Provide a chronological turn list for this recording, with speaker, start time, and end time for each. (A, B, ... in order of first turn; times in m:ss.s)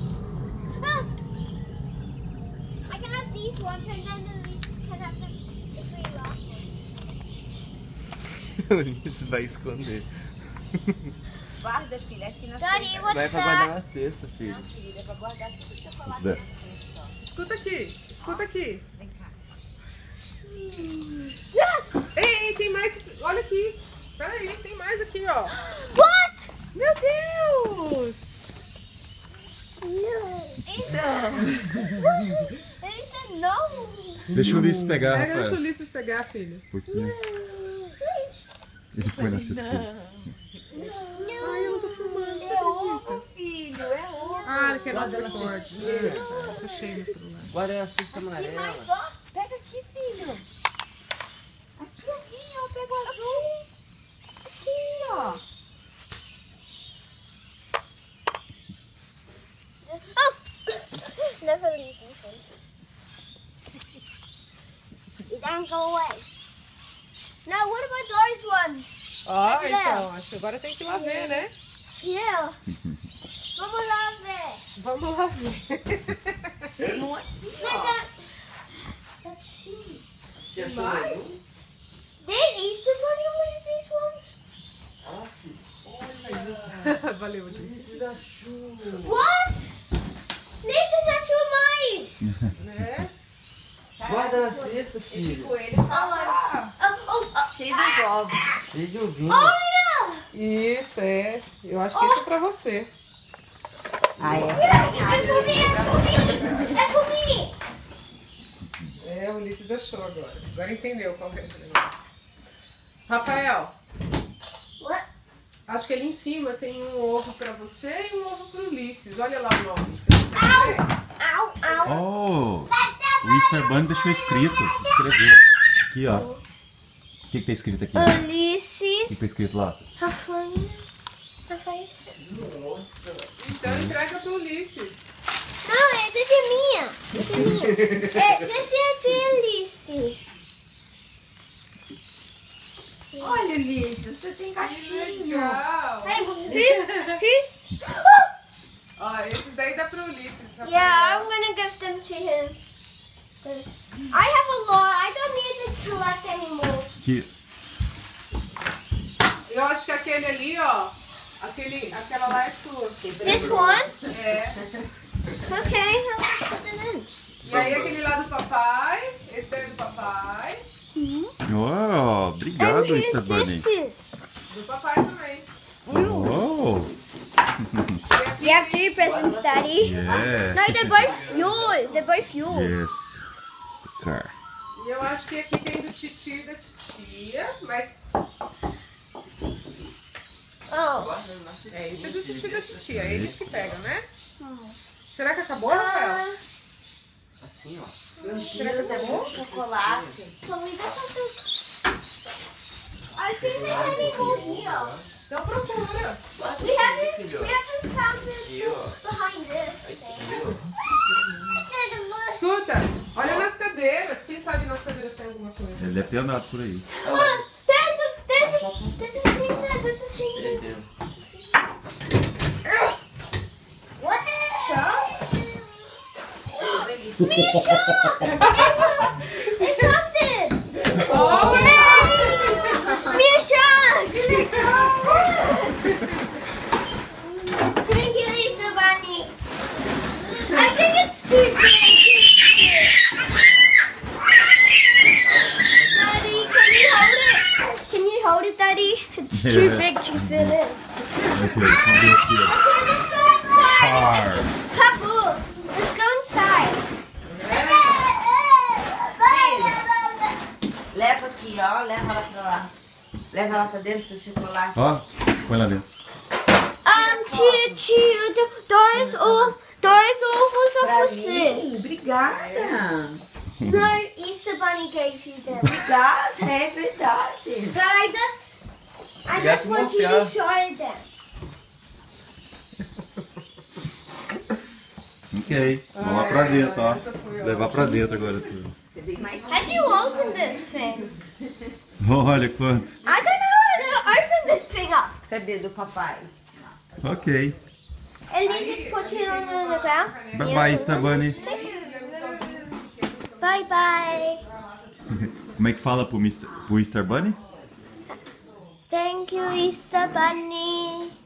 0:02.9-0:06.9 A
0:08.6-0:10.1 B
0:11.6-0:13.4 C
0:12.6-0:13.7 A
0:13.1-0:14.7 B
0:14.3-0:17.1 C
0:16.1-0:16.4 D
0:17.2-0:18.8 E
0:19.0-0:19.3 C
0:21.5-0:21.8 A
0:22.1-0:25.7 E
0:25.9-0:26.5 A
0:26.8-0:28.0 C
0:29.8-0:34.4 A
0:30.9-0:31.8 C
0:34.3-0:35.6 D
0:35.0-0:36.6 E
0:36.7-0:37.2 D
0:36.9-0:38.3 A
0:38.9-0:39.9 D
0:39.1-0:41.3 C
0:40.7-0:42.3 A
0:41.4-0:43.2 E
0:42.3-0:46.6 C
0:44.2-0:46.8 A
0:44.4-0:47.5 E
0:45.7-0:46.3 B
0:47.5-0:50.4 C
0:51.8-0:53.6 C
0:53.0-0:53.6 A
0:54.6-0:55.4 C
0:59.8-1:02.5 A
1:05.3-1:06.2 A
1:07.4-1:10.1 A
1:09.2-1:11.5 E
1:10.9-1:11.5 A
1:12.0-1:12.6 A
1:13.6-1:14.6 A
1:14.8-1:16.5 E
1:16.8-1:18.0 C
1:17.6-1:18.1 A
1:19.2-1:20.0 A
1:20.5-1:21.4 C
1:20.5-1:21.4 E
1:22.2-1:24.4 A
1:25.0-1:26.9 C
1:26.2-1:27.8 E
1:27.5-1:29.2 C
1:29.0-1:29.8 A
1:30.6-1:32.3 A
1:32.6-1:33.1 E
1:34.0-1:36.7 C
1:34.1-1:35.5 B
1:35.9-1:38.0 A
1:37.5-1:39.4 C
1:38.7-1:39.5 B
1:39.3-1:40.2 A
1:40.3-1:42.9 E
1:41.9-1:42.2 A
1:44.2-1:46.8 C
1:44.5-1:47.5 A
1:49.0-1:51.9 E
1:53.1-1:53.8 E
1:54.8-1:55.0 A
1:55.7-2:00.9 E
2:00.4-2:02.0 A
2:01.8-2:06.3 D
2:02.7-2:05.1 A
2:06.1-2:06.4 A
2:07.3-2:08.2 D
2:07.9-2:09.3 A
2:09.1-2:09.8 D
2:10.0-2:10.8 A
2:11.5-2:11.9 A
2:12.4-2:13.3 B
2:13.4-2:15.0 E
2:13.5-2:14.0 D
2:15.6-2:20.4 A
2:23.1-2:23.4 A
2:23.2-2:25.6 C
2:24.6-2:26.3 E
2:26.0-2:27.8 A
2:29.0-2:31.3 E
2:30.6-2:32.6 A
2:33.4-2:36.9 A
2:37.0-2:37.3 D
2:39.5-2:43.5 E
2:43.0-2:43.9 C
2:43.2-2:43.9 A
2:44.1-2:44.6 E
2:45.4-2:47.1 A
2:47.4-2:48.0 B
2:47.4-2:50.6 E
2:50.9-2:51.3 A
2:51.4-2:53.7 D
2:52.6-2:54.2 A
2:54.5-2:55.5 E
2:55.8-2:56.4 A
2:55.9-2:56.9 D
2:57.6-2:58.0 D
2:58.1-2:58.9 E
2:58.4-3:02.9 A
2:59.0-3:00.4 C
2:59.8-3:01.1 D
3:01.0-3:01.3 C
3:01.0-3:01.9 B
3:02.4-3:03.2 D
3:03.9-3:04.3 D
3:04.7-3:08.1 E
3:10.7-3:11.1 A
3:11.0-3:13.8 B
3:11.7-3:14.1 E
3:12.9-3:13.4 D
3:14.4-3:14.8 A
3:15.1-3:16.2 E
3:15.6-3:16.4 A
3:17.4-3:17.9 B
3:18.2-3:18.8 A
3:18.2-3:20.4 C
3:18.5-3:19.3 E
3:18.8-3:20.2 B
3:20.4-3:21.5 A
3:23.2-3:25.0 A
3:23.2-3:25.0 B
3:23.6-3:24.5 C
3:25.3-3:26.2 E
3:26.4-3:27.6 B
3:26.4-3:30.6 A
3:28.2-3:29.0 B
3:29.8-3:30.6 B
3:31.1-3:31.6 C
3:31.7-3:32.4 A
3:32.3-3:36.1 E
3:33.2-3:33.5 B
3:35.8-3:36.9 D
3:37.0-3:41.5 A
3:37.0-3:37.4 C
3:37.1-3:37.4 B
3:38.3-3:39.6 C
3:40.3-3:40.8 B
3:44.0-3:45.4 A
3:46.5-3:47.6 C
3:46.6-3:55.8 A
3:48.3-3:48.8 E
3:50.9-3:52.8 E
3:51.1-3:53.2 C
3:57.2-3:59.3 A
4:00.2-4:03.0 A
4:05.2-4:06.9 B
4:05.9-4:10.8 A
4:09.3-4:10.6 D
4:11.3-4:12.6 D
4:12.3-4:16.9 A
4:13.5-4:14.5 D
4:17.3-4:18.0 E
4:17.5-4:20.4 A
4:19.2-4:19.8 C
4:20.9-4:22.7 C
4:23.3-4:24.9 C
4:24.8-4:25.8 D
4:26.8-4:31.7 A
4:26.9-4:27.8 E
4:28.9-4:29.5 C
4:30.8-4:33.2 C
4:32.2-4:32.8 E
4:33.6-4:33.9 D
4:33.6-4:35.8 A
4:35.6-4:37.8 C
4:37.7-4:38.4 A
4:39.2-4:41.0 A
4:39.3-4:40.3 B
4:45.3-4:48.7 D
4:45.9-4:48.5 E
4:48.9-4:50.4 C
4:49.5-4:51.1 A
4:50.1-4:50.6 E
4:52.0-4:53.0 D
4:53.0-4:55.2 A
4:53.8-4:54.1 E
4:55.3-4:56.3 C
4:57.0-4:57.6 D
4:58.3-5:01.9 A
4:58.4-5:05.5 E
5:00.3-5:01.4 D
5:01.7-5:02.7 C
5:03.4-5:04.4 A
5:05.1-5:07.4 D
5:08.9-5:11.1 A